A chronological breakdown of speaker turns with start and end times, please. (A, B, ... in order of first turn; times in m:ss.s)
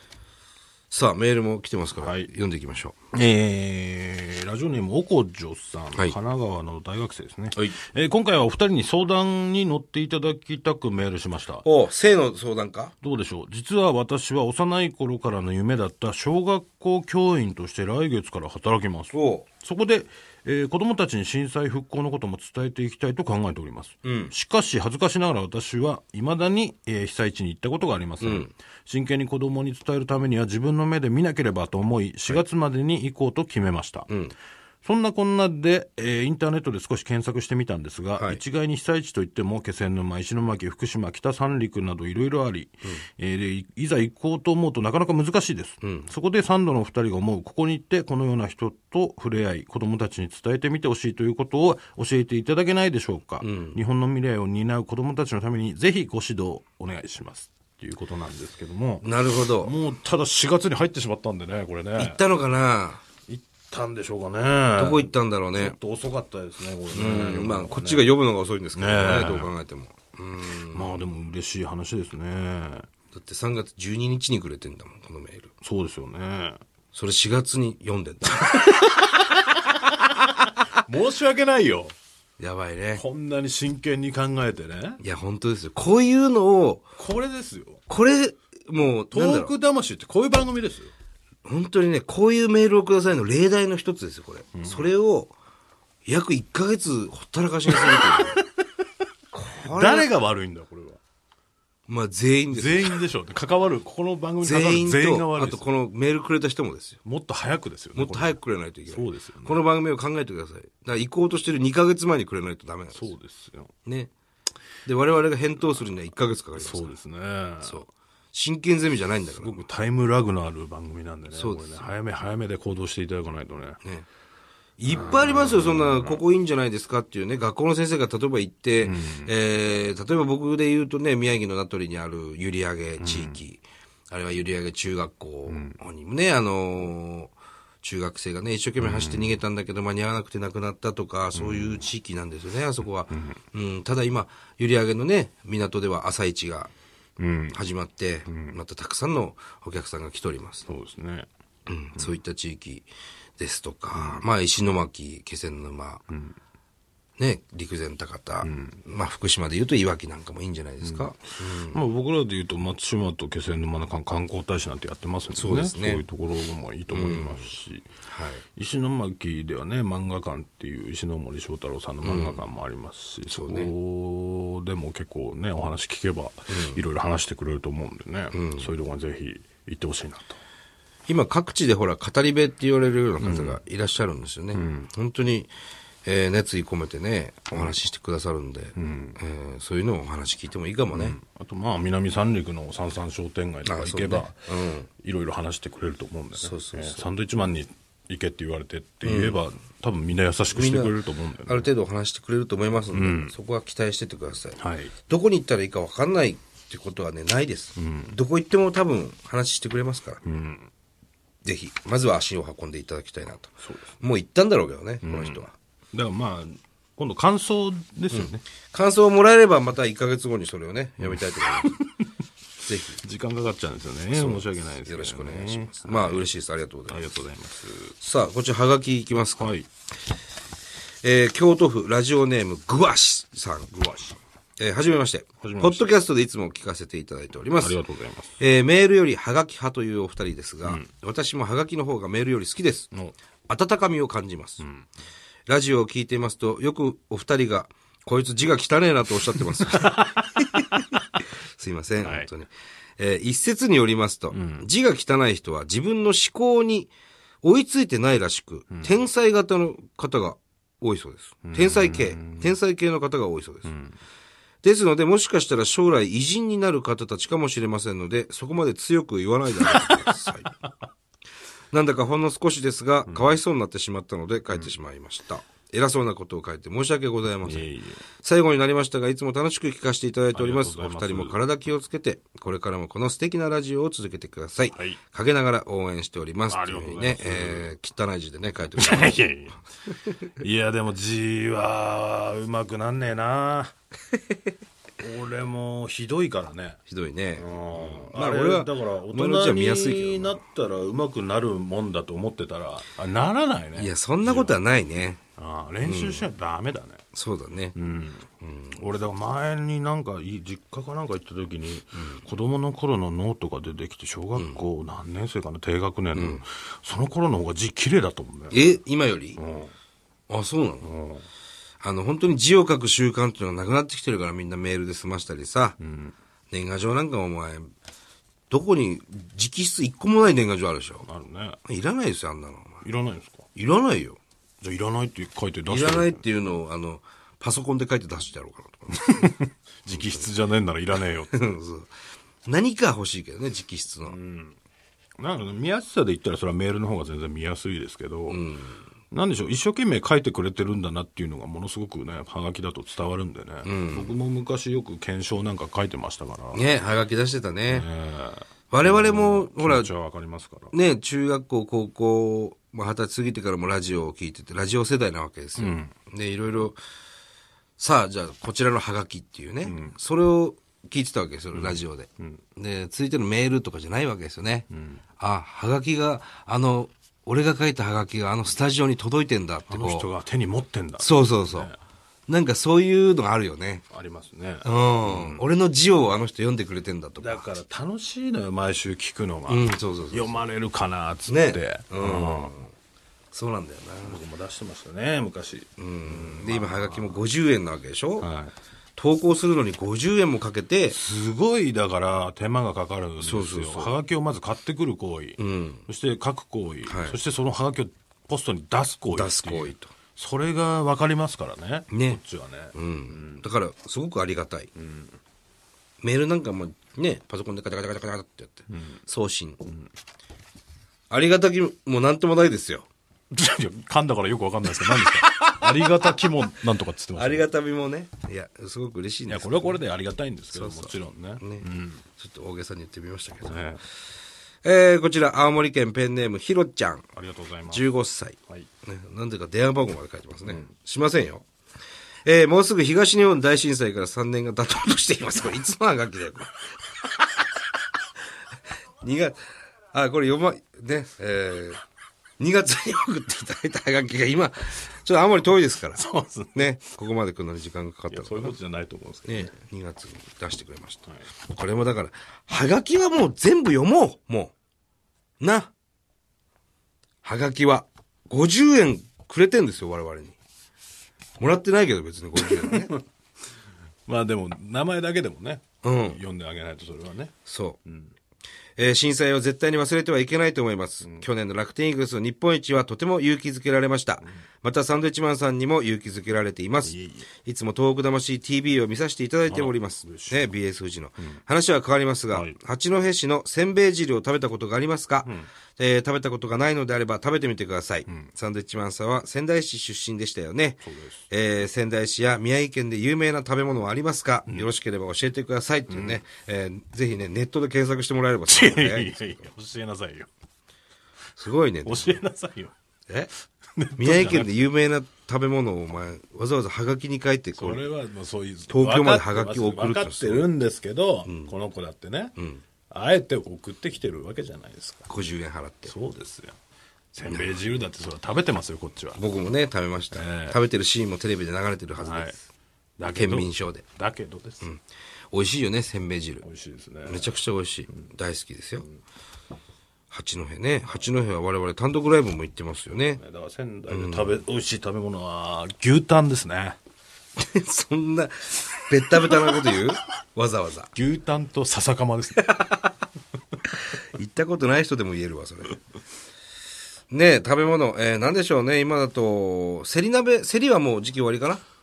0:00.9-0:03.0 A
0:02.0-0:02.3 B
0:03.1-0:11.6 B
0:11.6-0:12.9 A
0:13.0-0:34.1 B
0:19.1-0:19.5 A
0:24.0-0:24.3 A
0:28.2-0:28.5 A
0:34.1-0:34.3 A
0:34.8-1:02.2 B
0:45.8-0:46.1 A
0:53.4-0:53.8 A
0:59.0-0:59.7 A
1:02.0-1:03.0 A
1:03.3-1:08.0 B
1:04.8-1:05.8 A
1:06.9-1:11.0 A
1:08.8-1:09.5 B
1:10.7-1:12.9 B
1:13.1-1:15.5 A
1:15.6-1:16.6 B
1:16.9-1:18.6 A
1:18.4-1:21.9 B
1:22.4-1:23.0 A
1:22.9-1:25.0 B
1:25.0-1:26.8 A
1:27.0-1:27.8 B
1:27.9-1:29.5 A
1:29.1-1:30.9 B
1:31.4-1:35.3 A
1:34.5-1:34.9 B
1:36.0-1:38.4 A
1:37.7-1:38.6 B
1:39.3-1:40.1 A
1:39.6-1:41.0 B
1:41.9-1:43.0 A
1:42.5-1:45.7 B
1:44.4-1:47.0 A
1:47.0-1:48.4 B
1:47.9-1:53.1 A
1:48.9-1:49.6 B
1:52.9-1:53.7 B
1:53.8-1:54.1 A
1:54.8-1:56.9 A
1:56.6-1:57.8 B
1:57.6-1:59.6 A
1:59.4-2:03.8 B
2:01.3-2:01.9 A
2:04.8-2:06.2 B
2:04.8-2:26.7 A
2:08.8-2:09.3 B
2:13.0-2:13.4 B
2:15.5-2:15.8 B
2:18.8-2:19.4 B
2:21.3-2:21.9 B
2:23.1-2:23.4 B
2:27.2-2:27.6 B
2:27.5-2:30.6 A
2:28.3-2:28.6 B
2:30.6-2:31.3 B
2:31.7-2:32.9 A
2:33.4-2:36.0 A
2:33.9-2:34.2 B
2:36.1-2:36.4 B
2:37.2-2:41.8 A
2:38.4-2:38.8 B
2:40.8-2:41.1 B
2:41.7-2:47.8 B
2:45.3-2:46.0 A
2:46.9-2:47.5 A
2:48.0-2:48.4 A
2:48.6-3:00.4 B
2:52.0-2:52.4 A
2:53.3-2:53.7 A
2:56.5-2:56.8 A
2:58.3-2:58.7 A
3:01.1-3:05.5 A
3:03.2-3:03.6 B
3:04.5-3:04.9 B
3:06.0-3:11.2 A
3:08.8-3:09.2 B
3:10.9-3:14.5 B
3:13.6-3:14.9 A
3:15.0-3:21.7 B
3:16.4-3:17.0 A
3:19.0-3:19.4 A
3:20.5-3:20.9 A
3:21.5-3:30.2 A
3:22.9-3:23.3 B
3:24.6-3:24.9 B
3:27.8-3:28.1 B
3:30.2-3:30.7 B
3:31.4-3:35.5 A
3:33.6-3:34.0 B
3:35.0-3:38.4 B
3:38.1-3:41.7 A
3:41.0-3:42.1 B
3:42.6-3:43.0 A
3:43.0-3:46.3 B
3:44.1-3:47.1 A
3:46.9-3:47.9 B
3:48.0-3:49.5 A
3:49.4-3:49.7 B
3:51.0-3:53.7 A
3:53.7-3:54.2 B
3:54.6-3:57.8 A
3:55.4-3:55.9 B
3:57.6-3:58.4 B
3:58.4-4:02.9 A
4:03.5-4:04.6 A
4:04.6-4:04.8 B
4:05.5-4:16.9 A
4:09.7-4:11.0 B
4:12.0-4:12.3 B
4:14.3-4:14.7 B
4:17.4-4:23.7 A
4:21.4-4:22.6 B
4:23.6-4:24.0 B
4:24.6-4:30.6 A
4:29.6-4:30.2 B
4:31.7-4:37.7 A
4:33.1-4:33.4 B
4:37.4-4:38.0 B
4:38.2-4:49.3 A
4:40.3-4:41.4 B
4:44.7-4:45.0 B
4:46.5-4:47.7 B
4:48.8-4:49.6 B
4:49.9-4:50.3 A
4:50.4-4:53.7 B
4:55.0-4:56.8 B
4:56.9-5:00.4 A
4:57.4-5:04.6 B
5:03.8-5:05.2 A
5:05.4-5:07.0 B
5:05.8-5:06.2 A
5:07.1-5:07.8 A
5:07.7-5:18.8 B
5:08.4-5:08.8 A
5:12.0-5:12.2 A
5:14.3-5:14.6 A
5:16.1-5:16.4 A
5:18.5-5:19.4 A
5:19.4-5:19.7 B
5:20.3-5:20.9 A
5:20.8-5:21.2 B
5:21.8-5:25.8 A
5:25.8-5:26.1 B
5:26.5-5:27.7 A
5:28.5-5:31.1 A
5:31.0-5:31.6 B
5:31.6-5:32.8 A
5:32.8-5:33.5 B
5:33.5-5:34.2 A
5:34.6-5:36.2 B
5:35.7-5:40.3 A
5:38.9-5:41.3 B
5:41.3-5:41.9 A
5:42.4-5:44.2 A
5:44.0-5:44.6 B
5:45.2-5:48.4 B
5:48.3-5:48.9 A
5:49.1-5:56.7 B
5:53.6-5:54.1 A
5:56.5-5:57.8 A
5:57.7-6:00.7 B
5:58.7-5:59.9 A
6:00.7-6:06.8 A
6:05.6-6:05.9 B
6:07.8-6:14.7 A
6:09.6-6:10.0 B
6:11.5-6:12.4 B
6:14.7-6:15.0 B
6:15.2-6:20.1 A
6:19.7-6:21.8 B
6:21.0-6:21.7 A
6:22.3-6:23.8 A
6:23.9-6:25.4 B
6:24.6-6:27.4 A
6:27.2-6:32.5 B
6:29.5-6:30.4 A
6:31.3-6:32.7 A
6:33.3-6:34.2 A
6:34.0-6:37.2 B
6:35.8-6:38.3 A
6:38.2-6:38.5 B
6:39.0-6:41.0 A
6:40.9-6:53.4 B
6:43.2-6:43.9 A
6:45.4-6:45.8 A
6:46.9-6:47.2 A
6:49.1-6:49.9 A
6:51.9-6:52.2 A
6:52.7-6:54.7 A
6:54.8-6:55.2 B
6:56.0-6:59.6 A
6:58.7-6:59.0 B
7:01.1-7:02.8 A
7:03.3-7:07.5 B
7:07.2-7:09.8 A
7:09.3-7:12.0 B
7:10.5-7:13.7 A
7:13.4-7:13.8 B
7:14.6-7:17.0 A
7:17.1-7:17.8 B
7:17.7-7:21.4 A
7:22.2-7:26.8 A
7:29.0-7:29.4 A
7:29.9-7:31.8 A
7:32.4-7:38.6 A
7:35.9-7:36.8 B
7:38.1-7:39.5 B
7:39.2-7:44.5 A
7:45.4-7:45.7 A
7:47.2-7:50.3 A
7:51.4-7:53.0 A
7:52.4-7:52.8 B
7:54.0-7:57.3 B
7:55.8-7:56.2 A
7:57.4-7:57.8 A
7:57.8-7:58.1 B
7:58.8-8:29.2 A
8:06.8-8:07.3 B
8:09.5-8:10.4 B
8:15.2-8:15.5 B
8:20.8-8:21.3 B
8:25.9-8:26.2 B
8:28.5-8:30.3 B
8:31.4-8:32.2 A
8:31.8-8:32.7 B
8:33.8-8:34.5 B
8:34.0-8:37.8 A
8:37.6-8:42.3 B
8:38.7-8:40.5 A
8:41.2-8:41.5 A
8:42.4-8:42.6 A
8:42.9-8:45.1 B
8:45.1-8:45.9 A
8:45.9-8:46.6 B
8:47.1-8:49.2 B
8:47.3-8:47.6 A
8:49.2-8:52.4 A
8:50.1-8:50.6 B
8:52.0-8:52.4 B
8:53.0-8:54.7 B
8:53.0-8:53.8 A
8:54.6-8:56.4 A
8:56.4-8:57.3 B
8:57.0-8:58.9 A
9:00.1-9:03.2 A
9:03.2-9:06.8 B
9:03.9-9:04.4 A
9:07.4-9:10.9 A
9:10.9-9:12.6 B
9:12.4-9:12.8 A
9:13.9-9:15.8 A
9:17.1-9:21.6 A